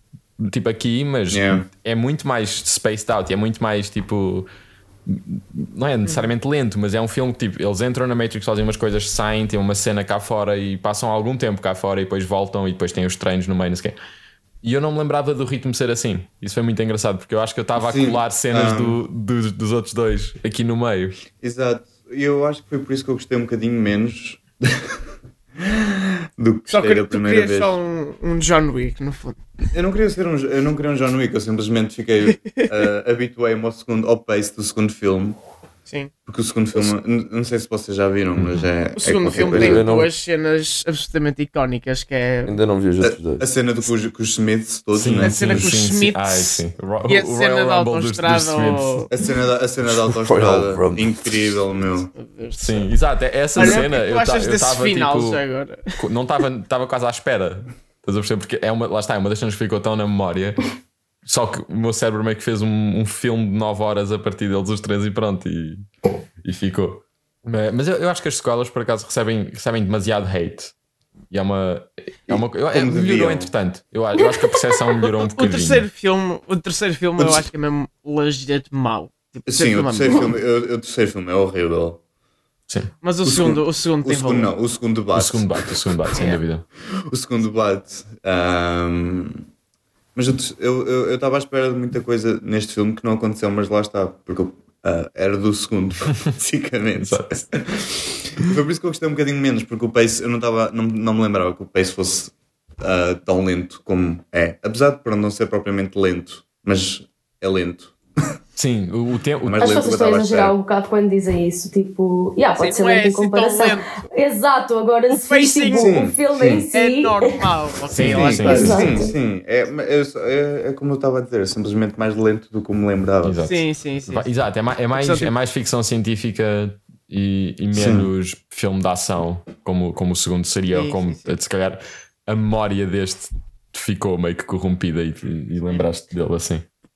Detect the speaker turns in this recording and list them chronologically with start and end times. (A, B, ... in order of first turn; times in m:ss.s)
0:00.4-0:04.5 A
0:01.3-0:01.6 B
0:05.0-0:14.0 A
0:14.6-0:21.2 A
0:17.8-0:19.0 B
0:21.4-0:25.0 B
0:25.6-0:27.7 B
0:26.7-0:29.4 C
0:29.7-0:35.4 B
0:35.9-0:36.1 C
0:36.2-0:39.9 B
0:38.4-0:38.6 A
0:39.0-0:42.6 C
0:39.5-0:40.1 D
0:42.4-0:43.4 D
0:43.0-0:45.8 B
0:44.9-0:49.1 A
0:45.2-0:49.1 C
0:49.1-0:52.1 B
0:49.8-0:51.5 D
0:52.2-0:52.9 C
0:52.6-0:55.4 A
0:53.6-0:56.0 C
0:56.0-1:00.6 A
1:01.2-1:05.9 A
1:06.4-1:10.7 A
1:11.3-1:15.9 A
1:12.3-1:13.5 B
1:15.2-1:20.3 C
1:17.2-1:17.5 B
1:19.5-1:22.0 B
1:23.0-1:24.5 C
1:23.2-1:25.7 B
1:25.1-1:26.6 A
1:26.1-1:26.4 C
1:27.1-1:29.4 B
1:30.1-1:47.9 B
1:37.0-1:37.4 A
1:48.6-1:49.7 A
1:49.4-1:50.5 B
1:49.6-1:57.4 E
1:52.6-1:54.0 C
1:55.1-1:56.0 C
1:55.7-1:56.2 B
1:56.4-1:56.6 D
1:56.7-1:59.0 C
1:57.9-1:58.9 A
1:58.0-2:03.4 B
1:58.4-1:59.1 E
2:03.2-2:16.6 A
2:03.4-2:04.3 C
2:04.9-2:05.3 C
2:07.7-2:08.1 B
2:10.7-2:11.3 C